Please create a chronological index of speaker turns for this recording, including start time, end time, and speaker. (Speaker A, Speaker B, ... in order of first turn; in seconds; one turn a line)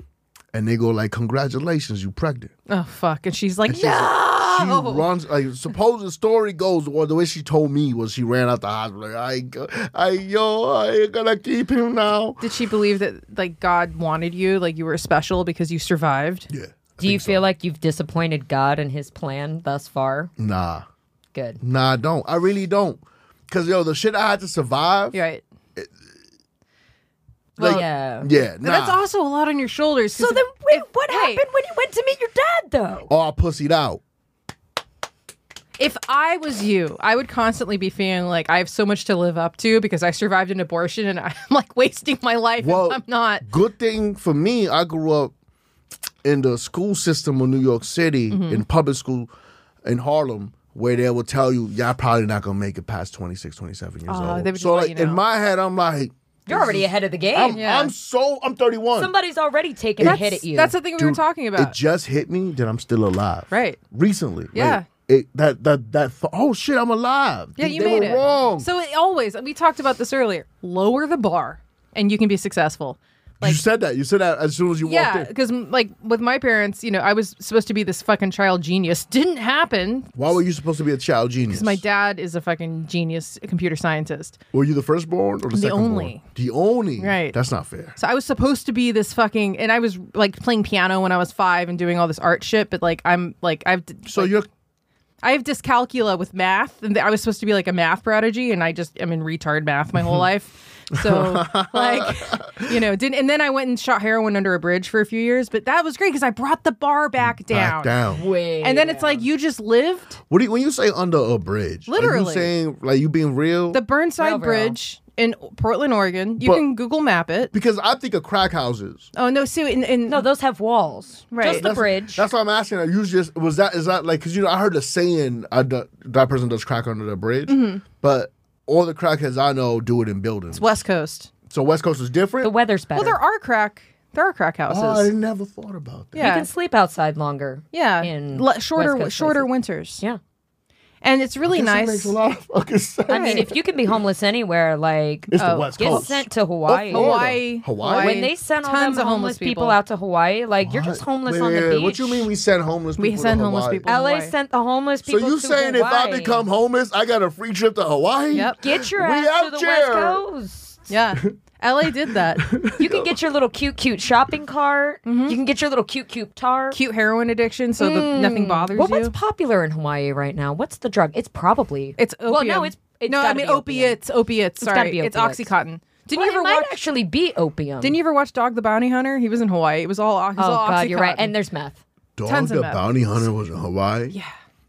Speaker A: 0.5-2.5
Speaker B: 2.7-5.1
Speaker A: 3.7-12.4
Speaker B: 12.4-16.5
Speaker A: 16.5-17.4
Speaker C: 17.0-20.3
Speaker A: 20.4-20.9
Speaker C: 21.3-21.6
Speaker A: 21.6-25.2
Speaker B: 25.1-25.4
Speaker B: 27.6-27.9
Speaker C: 27.6-28.3
Speaker A: 27.6-29.0
Speaker B: 28.6-31.4
Speaker C: 30.1-33.1
Speaker A: 33.1-34.0
Speaker B: 35.8-43.5
Speaker A: 42.6-45.3
Speaker A: 46.2-49.3
Speaker B: 48.3-48.6
Speaker A: 49.8-59.1
Speaker B: 54.1-55.2
Speaker C: 56.5-57.6
Speaker B: 57.5-57.9
Speaker C: 59.0-60.8
Speaker B: 60.0-61.8
Speaker A: 61.0-68.7
Speaker B: 63.5-63.8
Speaker B: 64.5-64.9
Speaker B: 67.6-73.6
Speaker A: 73.4-75.3
Speaker B: 74.8-80.2
Speaker A: 80.2-81.8
Speaker B: 81.5-84.4
Speaker A: 84.5-88.0
Speaker B: 85.5-86.2
Speaker B: 87.0-87.4
Speaker B: 88.0-94.3
Speaker A: 94.1-94.5
Speaker B: 95.2-108.0
Speaker A: 100.9-102.8
Speaker A: 107.2-108.2
Speaker C: 108.1-109.2
Speaker B: 108.6-110.2
Speaker A: 110.3-113.8
Speaker B: 111.9-112.5
Speaker B: 113.7-117.5
Speaker C: 114.2-114.8
Speaker A: 117.5-119.1
Speaker B: 119.2-120.2
Speaker C: 120.1-122.2
Speaker B: 121.3-121.7
Speaker A: 121.5-130.8
Speaker B: 127.5-127.8
Speaker B: 130.5-131.3
Speaker A: 131.5-132.5
Speaker C: 132.4-133.2
Speaker B: 132.9-135.1
Speaker A: 134.7-136.2
Speaker B: 136.1-136.5
Speaker C: 136.2-139.5
Speaker B: 137.7-140.0
Speaker B: 141.0-142.2
Speaker A: 141.5-143.6
Speaker C: 143.1-147.2
Speaker B: 143.1-143.5
Speaker A: 145.3-148.3
Speaker B: 145.4-146.1
Speaker B: 146.9-149.8
Speaker C: 147.8-152.3
Speaker A: 150.6-153.8
Speaker B: 153.0-154.3
Speaker C: 153.9-156.4
Speaker A: 155.1-160.2
Speaker B: 158.3-158.6
Speaker C: 158.4-160.9
Speaker B: 160.9-162.5
Speaker A: 162.4-163.1
Speaker C: 162.8-166.8
Speaker B: 165.1-165.4
Speaker B: 166.7-169.1
Speaker C: 167.8-174.0
Speaker B: 172.0-176.8
Speaker C: 174.6-175.5
Speaker C: 176.1-178.0
Speaker B: 177.8-181.3
Speaker C: 180.4-181.8
Speaker A: 182.2-184.2
Speaker B: 182.3-183.1